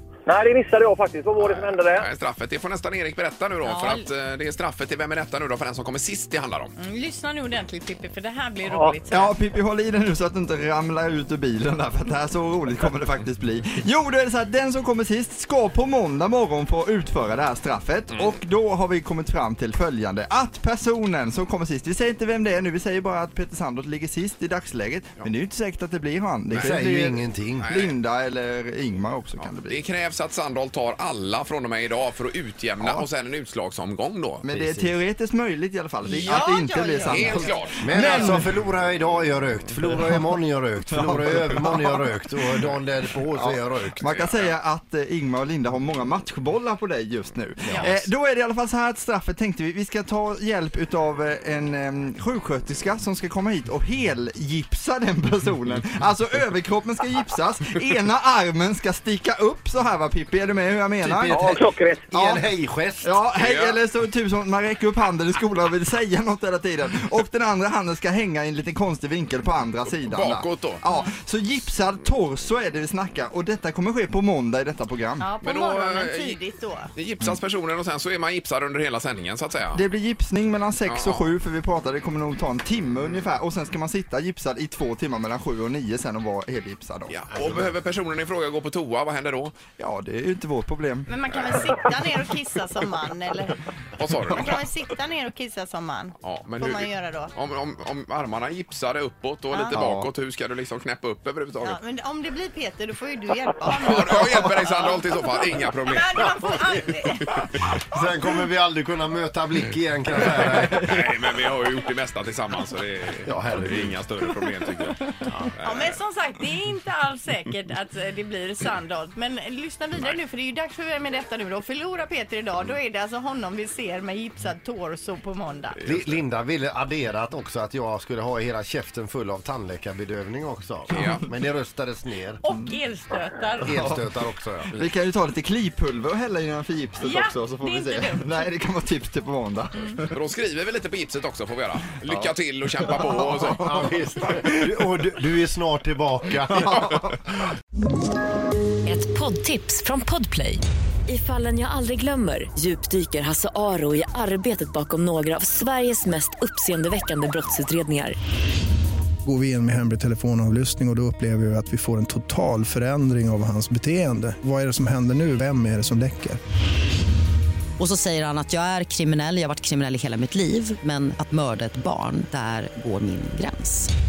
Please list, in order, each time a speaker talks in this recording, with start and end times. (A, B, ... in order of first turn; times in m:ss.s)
0:00.3-0:02.1 A
0:01.4-0:06.8 B
0:03.6-0:04.1 C
0:06.8-0:09.3 C
0:08.7-0:09.0 A
0:09.1-0:29.8 D
0:18.1-0:18.4 B
0:26.5-0:27.7 E
0:27.6-0:28.0 B
0:29.4-0:34.4 B
0:32.8-0:33.1 D
0:34.4-0:38.5 D
0:34.5-0:35.0 E
0:36.0-0:37.6 C
0:37.1-0:38.3 B
0:37.8-0:44.0 E
0:39.9-0:40.2 D
0:40.9-0:42.0 D
0:42.5-1:01.6 D
0:44.1-0:44.5 B
1:01.0-1:03.2 E
1:01.3-1:02.1 A
1:02.1-1:02.5 D
1:03.0-1:15.3 D
1:03.4-1:03.8 B
1:09.8-1:10.8 B
1:15.2-1:16.9 C
1:15.4-1:16.4 B
1:16.9-1:19.8 B
1:19.7-1:27.7 D
1:20.8-1:21.3 B
1:27.1-1:29.6 B
1:29.8-1:31.1 D
1:31.1-1:33.6 C
1:34.0-1:34.6 B
1:34.3-1:37.3 C
1:36.2-1:41.8 B
1:39.7-1:40.1 D
1:41.6-1:47.4 C
1:43.8-1:46.5 B
1:48.0-1:50.9 E
1:50.4-1:56.0 B
1:53.2-1:54.0 E
1:55.6-2:05.8 C
2:05.8-2:06.2 B
2:05.8-2:12.4 E
2:10.9-2:11.2 B
2:12.4-2:13.9 C
2:13.6-2:14.9 E
2:13.8-2:14.1 D
2:14.7-2:20.2 D
2:17.0-2:18.5 C
2:20.1-2:24.3 B
2:22.1-2:24.8 D
2:24.6-2:26.8 E
2:26.6-2:27.1 D
2:28.8-2:38.2 F
2:39.2-2:46.4 G
2:47.8-2:53.9 H